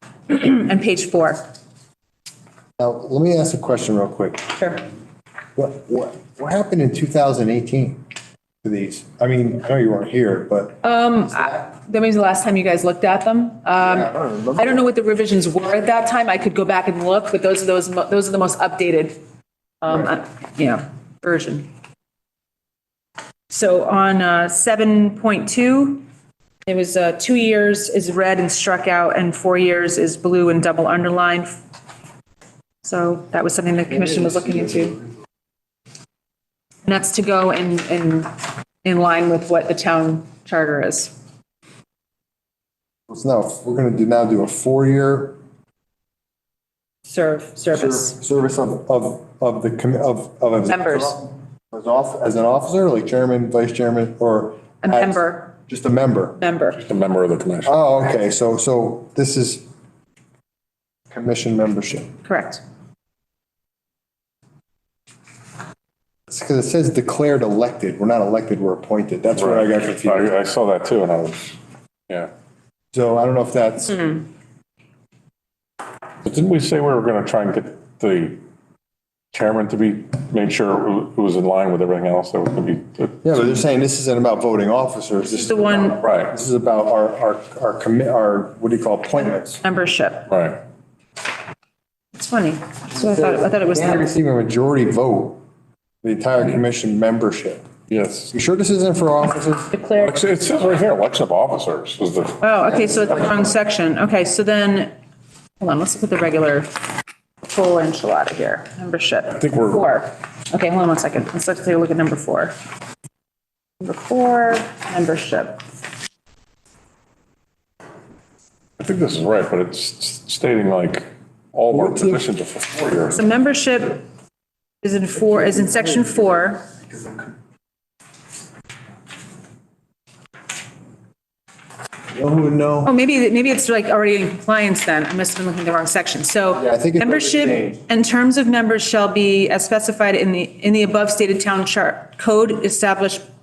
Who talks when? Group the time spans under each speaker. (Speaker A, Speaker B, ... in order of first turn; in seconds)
Speaker A: 0.3-1.4, 4.6-4.8, 10.8-19.2, 19.8-21.7, 23.5-26.0, 26.7-31.6, 32.8-35.0, 36.9-38.3, 38.8-41.1, 47.1-48.1, 50.7-51.2, 54.8-55.5, 56.4-56.8, 62.2-62.6, 85.2-86.0, 89.6-90.3, 92.2-94.1, 99.7-100.2, 102.4-104.9, 105.6-106.7, 107.5-112.5, 113.8-115.6, 123.2-124.0, 124.8-126.7, 132.8-143.2
Speaker B: 2.8-4.7, 5.6-8.0, 8.6-10.8, 13.8-14.8, 43.1-45.4, 47.7-56.4, 57.7-59.6, 61.1-62.1, 66.3-70.3, 72.9-74.2, 83.2-89.6, 93.0-95.4, 96.0-97.6, 98.3-99.7, 121.7-122.2, 132.1-132.9, 136.5-137.8
Speaker C: 56.8-57.8, 69.3-71.6, 76.2-78.4, 79.3-83.3, 86.0-86.4, 90.3-90.6, 97.9-98.3, 100.0-102.4, 109.3-109.8, 118.8-123.2